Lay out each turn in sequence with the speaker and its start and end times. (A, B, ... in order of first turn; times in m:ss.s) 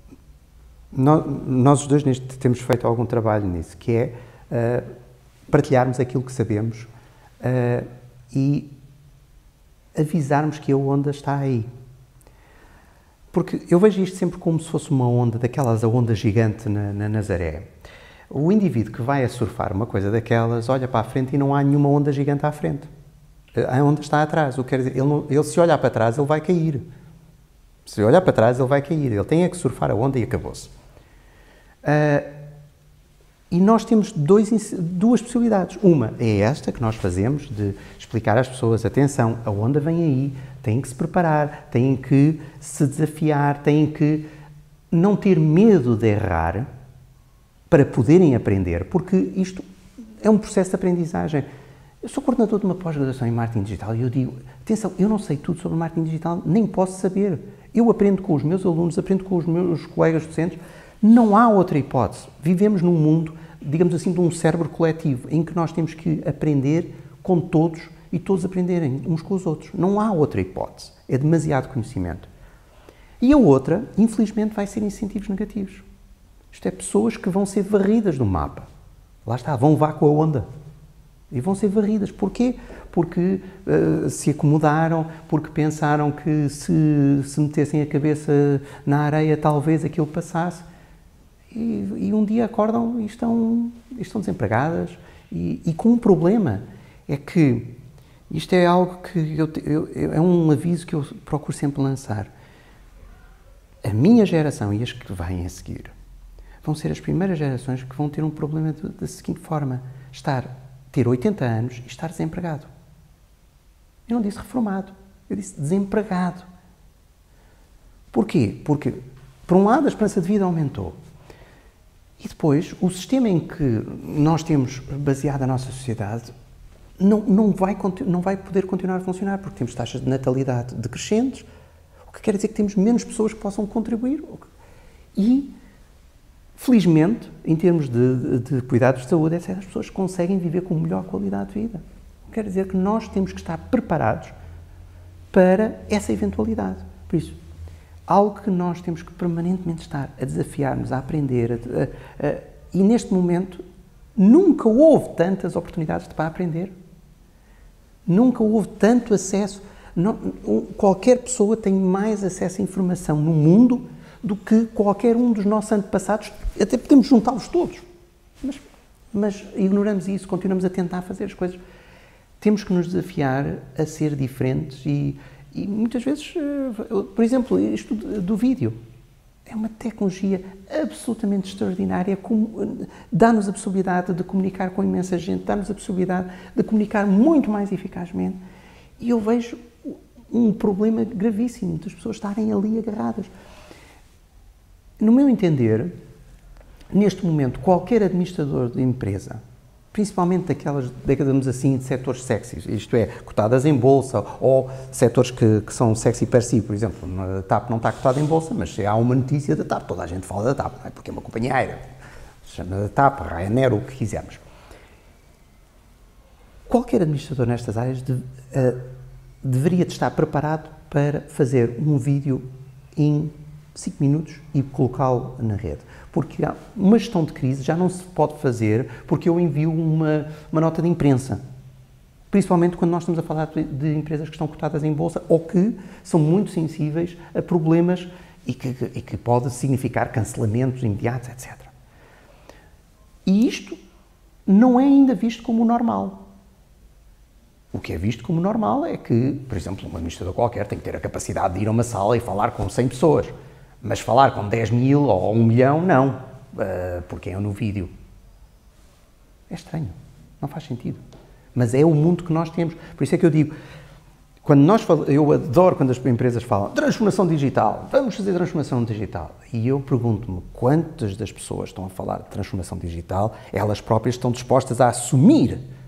0:00.9-0:04.8 A
0:05.5-0:06.9 A
0:07.4-0:08.7 A
0:09.9-0:11.7 A
0:13.3-0:17.7 A
0:18.3-0:22.9 A
0:23.5-0:26.8 A
0:27.8-0:30.7 A
0:31.8-0:32.3 A
0:33.5-0:44.2 A
0:44.9-0:46.7 A
0:47.7-0:49.6 A
0:50.2-0:51.5 A
0:52.0-1:12.3 A
1:13.2-1:15.8 A
1:16.5-1:18.7 A
1:19.2-1:20.4 A
1:21.3-1:30.6 A
1:31.5-1:37.7 A
1:38.3-1:42.3 A
1:43.8-1:45.9 A
1:46.6-1:52.7 A
1:54.1-1:56.4 A
1:58.1-2:00.9 A
2:02.2-2:06.3 A
2:07.0-2:11.4 A
2:12.1-2:14.5 A
2:15.2-2:15.5 A
2:16.6-2:24.3 A
2:25.3-2:27.4 A
2:28.1-2:33.6 A
2:34.2-2:36.7 A
2:38.0-2:47.8 A
2:49.1-2:51.6 A
2:52.4-2:58.8 A
2:59.4-3:08.4 A
3:09.0-3:13.3 A
3:15.0-3:15.9 A
3:16.9-3:19.4 A
3:19.9-3:31.8 A
3:32.4-3:34.4 A
3:36.7-3:38.8 A
3:39.4-3:51.4 A
3:52.3-4:01.7 A
4:03.2-4:03.8 A
4:04.4-4:06.2 A
4:07.7-4:17.9 A
4:19.5-4:21.0 A
4:21.5-4:23.5 A
4:24.4-4:35.6 A